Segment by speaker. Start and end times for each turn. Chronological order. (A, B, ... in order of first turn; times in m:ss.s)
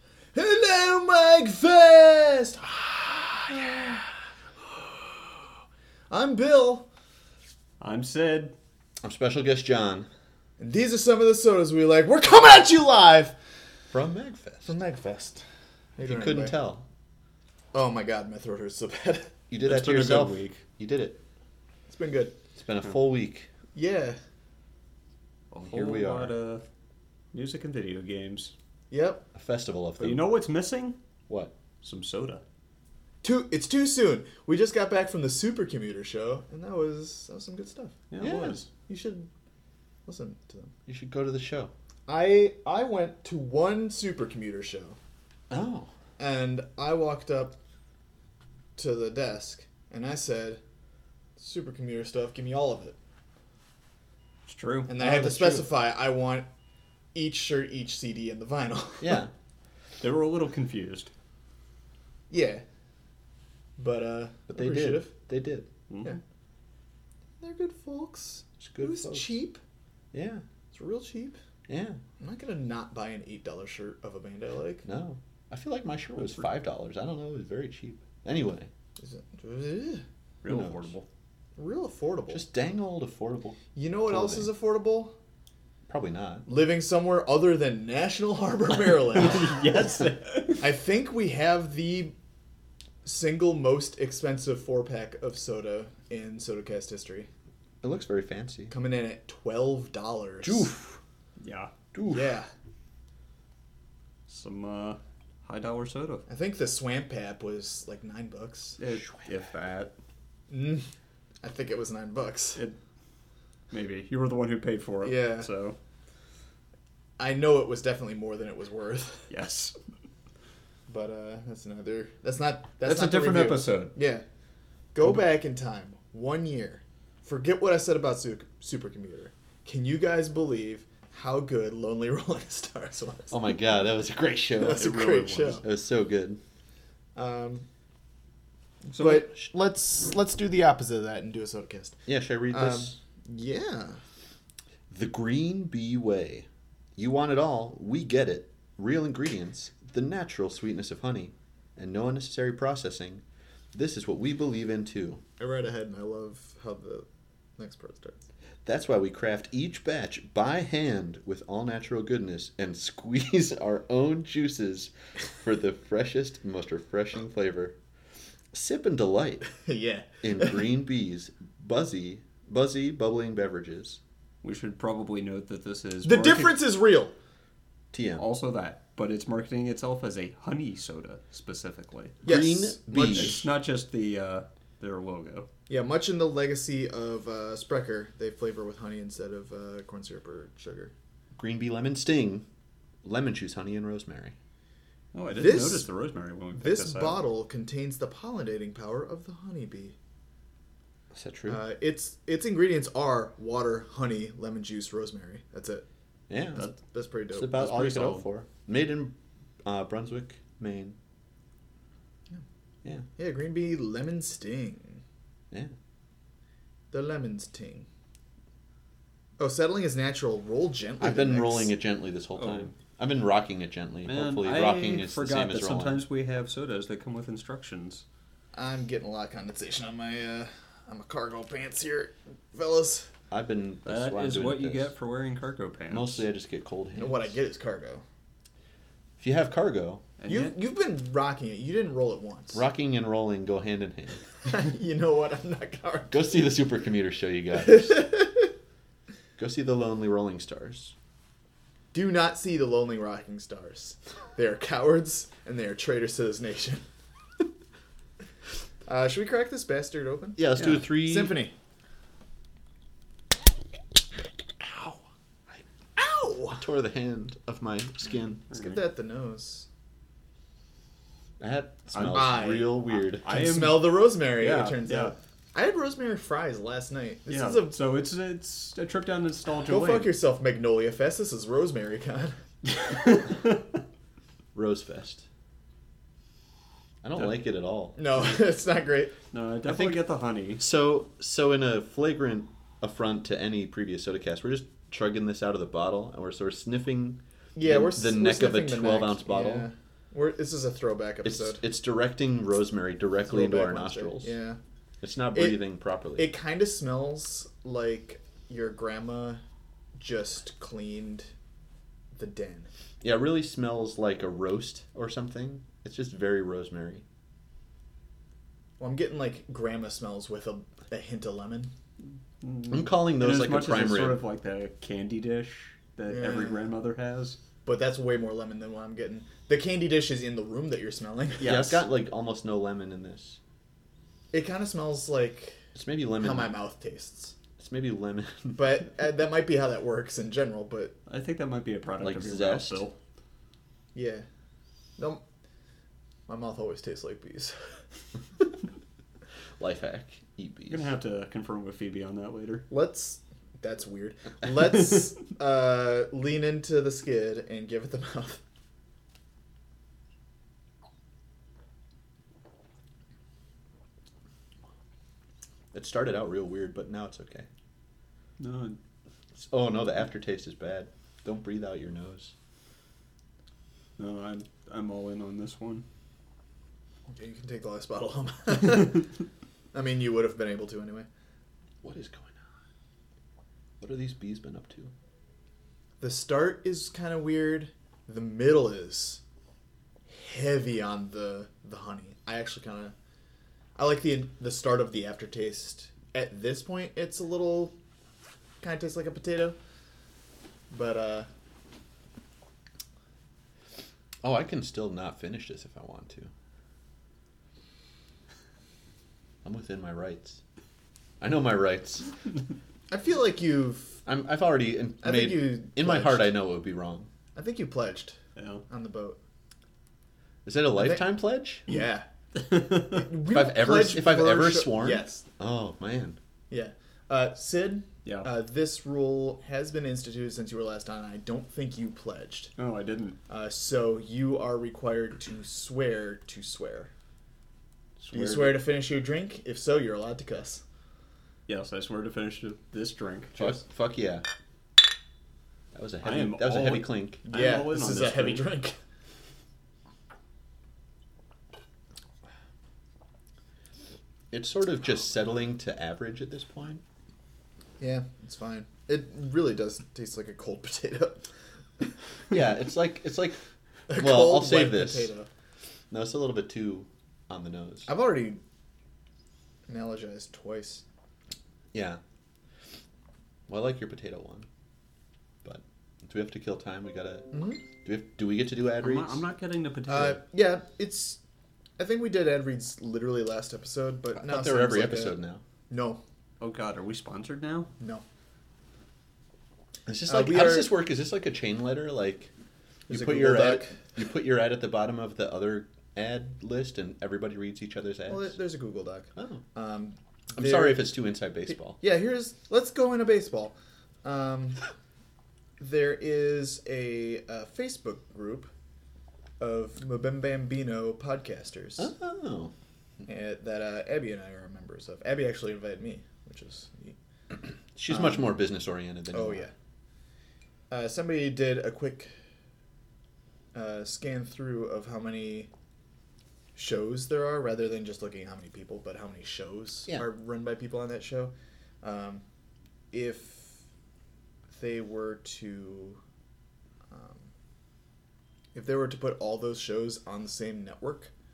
0:00.3-0:04.1 A
0:04.7-0:05.4 A
0:06.1-0:06.9 A
0:07.8-0:08.6 B
0:09.0-0:10.1 C
0:10.6-0:13.4 A
0:13.9-0:14.7 C
0:14.6-0:15.4 A
0:16.0-0:16.6 A
0:16.0-0:16.8 C
0:17.7-0:19.4 A
0:19.5-0:21.2 C
0:19.6-0:20.6 B
0:21.9-0:22.4 A
0:22.6-0:23.5 C
0:23.7-0:24.2 A
0:25.5-0:26.6 B
0:25.6-0:26.3 C
0:27.3-0:28.5 B
0:28.9-0:29.3 A
0:29.4-0:30.3 C
0:30.0-0:31.0 B
0:31.3-0:31.5 C
0:31.8-0:32.4 B
0:33.2-0:39.3 A
0:38.1-0:38.7 B
0:38.2-0:38.6 C
0:40.1-0:40.7 A
0:40.9-0:41.7 C
0:42.1-0:45.0 A
0:45.5-0:45.9 C
0:46.2-0:47.6 A
0:48.8-0:50.6 A
0:51.4-0:53.0 A
0:54.5-0:54.9 B
0:54.9-0:56.5 A
0:54.9-0:55.8 C
0:57.1-0:59.3 A
0:59.0-0:59.3 C
1:00.0-1:01.1 B
1:02.3-1:02.6 A
1:03.8-1:05.2 A
1:04.5-1:05.7 C
1:05.9-1:06.2 B
1:07.4-1:09.6 A
1:08.6-1:09.4 C
1:10.1-1:10.4 C
1:10.7-1:11.4 A
1:11.7-1:12.0 C
1:12.2-1:14.9 A
1:14.8-1:18.7 C
1:16.2-1:16.5 B
1:19.0-1:20.0 A
1:20.4-1:21.1 B
1:20.5-1:20.9 C
1:21.6-1:22.5 A
1:22.3-1:24.6 C
1:23.7-1:25.2 A
1:25.9-1:26.5 C
1:26.5-1:29.7 A
1:28.7-1:30.8 B
1:30.6-1:32.1 A
1:33.0-1:37.3 A
1:37.8-1:38.8 C
1:38.7-1:40.7 A
1:40.4-1:41.0 C
1:41.4-1:41.7 B
1:41.9-1:42.4 C
1:42.1-1:42.5 A
1:44.3-1:46.2 B
1:46.3-1:48.8 A
1:48.8-1:49.9 B
1:50.5-1:50.8 A
1:51.4-1:52.6 A
1:53.7-1:55.8 B
1:55.0-1:55.5 A
1:57.2-1:59.3 A
1:59.3-1:59.8 B
2:00.9-2:04.2 A
2:02.8-2:03.9 B
2:04.9-2:13.5 A
2:05.0-2:05.3 B
2:13.3-2:16.4 C
2:14.6-2:15.7 A
2:14.8-2:15.6 B
2:17.2-2:17.7 A
2:18.9-2:19.4 B
2:19.0-2:24.0 A
2:22.1-2:23.0 C
2:24.9-2:33.2 C
2:33.7-2:35.2 C
2:35.4-2:37.1 A
2:37.6-2:38.2 A
2:38.6-2:47.8 C
2:48.5-2:49.5 C
2:49.4-2:50.8 A
2:50.2-2:54.0 C
2:54.4-2:56.6 B
2:56.0-2:57.2 A
2:57.9-2:58.2 C
2:58.2-3:02.2 B
3:02.2-3:03.5 A
3:02.2-3:03.4 C
3:03.0-3:05.5 B
3:05.7-3:10.9 A
3:11.4-3:12.5 C
3:13.0-3:14.4 C
3:15.1-3:17.3 B
3:15.4-3:15.9 A
3:16.5-3:20.0 A
3:21.1-3:21.6 C
3:21.5-3:25.9 A
3:26.3-3:26.7 C
3:26.6-3:27.8 A
3:27.3-3:31.0 C
3:27.8-3:28.2 B
3:33.2-3:35.0 A
3:36.9-3:37.9 A
3:39.4-3:41.8 A
3:41.0-3:46.0 C
3:42.4-3:42.7 B
3:44.0-3:48.0 B
3:48.5-3:53.1 A
3:53.3-3:54.9 C
3:53.9-3:56.2 B
3:55.9-3:57.3 C
3:57.0-3:58.0 A
3:59.2-4:00.1 C
4:00.2-4:00.6 B
4:00.3-4:02.6 A
4:02.5-4:04.2 C
4:04.4-4:06.3 A
4:06.1-4:08.0 C
4:07.6-4:08.5 A
4:09.4-4:10.9 C
4:11.9-4:16.8 A
4:18.9-4:21.6 A
4:20.4-4:21.4 C
4:20.6-4:20.9 B
4:26.0-4:26.6 A
4:26.6-4:28.5 C
4:28.5-4:28.8 B
4:28.6-4:29.7 A
4:31.4-4:33.3 C
4:31.9-4:35.2 B
4:32.2-4:37.8 A
4:37.3-4:40.2 B
4:39.7-4:42.4 A
4:42.7-4:43.6 B
4:44.5-4:45.3 C
4:47.0-4:48.0 C
4:47.2-4:47.4 B
4:48.0-4:49.1 A
4:49.3-4:50.6 B
4:49.7-4:50.0 C
4:50.6-4:59.7 C
4:57.6-5:01.6 A
5:01.2-5:04.4 C
5:03.3-5:04.6 A
5:05.0-5:06.3 C
5:05.3-5:09.4 A
5:10.0-5:11.3 A
5:12.1-5:12.7 A
5:13.0-5:17.0 C
5:18.8-5:21.7 A
5:22.4-5:27.4 B
5:22.7-5:24.2 C
5:26.1-5:26.7 A
5:27.6-5:31.6 A
5:31.4-5:31.9 B
5:31.4-5:33.4 C
5:34.3-5:35.7 A
5:35.8-5:36.6 C
5:36.2-5:37.4 A
5:37.6-5:38.8 C
5:38.5-5:41.0 A
5:41.1-5:43.0 B
5:42.0-5:42.8 C
5:44.0-5:44.3 A
5:45.0-5:45.2 A
5:46.3-5:47.6 A
5:49.6-5:50.9 C
5:50.7-5:52.7 B
5:52.7-5:58.4 A
6:05.7-6:07.5 C
6:08.4-6:08.8 B
6:09.4-6:12.3 C
6:14.0-6:15.8 B
6:17.1-6:19.0 A
6:19.7-6:21.1 A
6:21.8-6:22.4 C
6:23.8-6:24.9 C
6:26.0-6:29.2 A
6:30.1-6:33.0 A
6:33.8-6:37.8 A
6:38.6-6:39.6 A
6:40.7-6:41.3 A
6:44.2-6:46.3 C
6:49.4-6:50.4 C
6:51.2-6:52.1 C
6:52.9-6:54.0 A
6:54.1-6:57.1 C
6:55.0-6:56.3 A
6:57.4-6:59.2 A
6:58.4-6:58.6 B
7:00.4-7:01.7 C
7:00.7-7:01.1 A
7:01.7-7:02.1 A
7:02.4-7:03.1 B
7:03.0-7:05.2 A
7:03.3-7:06.2 C
7:06.5-7:12.5 A
7:08.0-7:08.3 B
7:12.6-7:13.2 B
7:13.3-7:16.9 A
7:18.0-7:18.7 B
7:18.1-7:20.6 A
7:21.5-7:23.6 B
7:23.4-7:24.3 C
7:25.7-7:27.2 C
7:26.0-7:28.5 B
7:27.2-7:28.8 A
7:34.3-7:36.8 C
7:37.8-7:41.3 A
7:42.3-7:43.4 C
7:43.9-7:45.3 A
7:43.9-7:45.1 C
7:45.9-7:47.9 C
7:47.9-7:48.4 A
7:49.7-7:50.8 A
7:51.7-7:52.0 C
7:53.5-7:54.5 C
7:55.4-7:59.2 C
7:57.3-7:57.7 A
7:58.8-8:00.2 B
7:59.9-8:01.2 A
8:01.8-8:05.2 A
8:04.1-8:05.4 C
8:05.7-8:06.0 A
8:06.4-8:07.7 B
8:07.8-8:08.0 A
8:09.9-8:12.3 C
8:10.1-8:10.8 A
8:12.9-8:13.8 A
8:12.9-8:18.4 C
8:18.1-8:24.6 A
8:19.2-8:19.4 C
8:20.4-8:21.8 C
8:25.6-8:28.5 A
8:29.4-8:31.9 A
8:31.8-8:32.5 C
8:33.1-8:37.0 A
8:37.7-8:39.5 C
8:37.9-8:38.5 A
8:39.1-8:39.5 A
8:40.7-8:42.1 A
8:43.5-8:45.5 A
8:46.6-8:52.2 A
8:52.9-8:53.6 A
8:54.5-8:56.0 A
8:56.9-8:57.3 A
8:58.5-9:01.1 A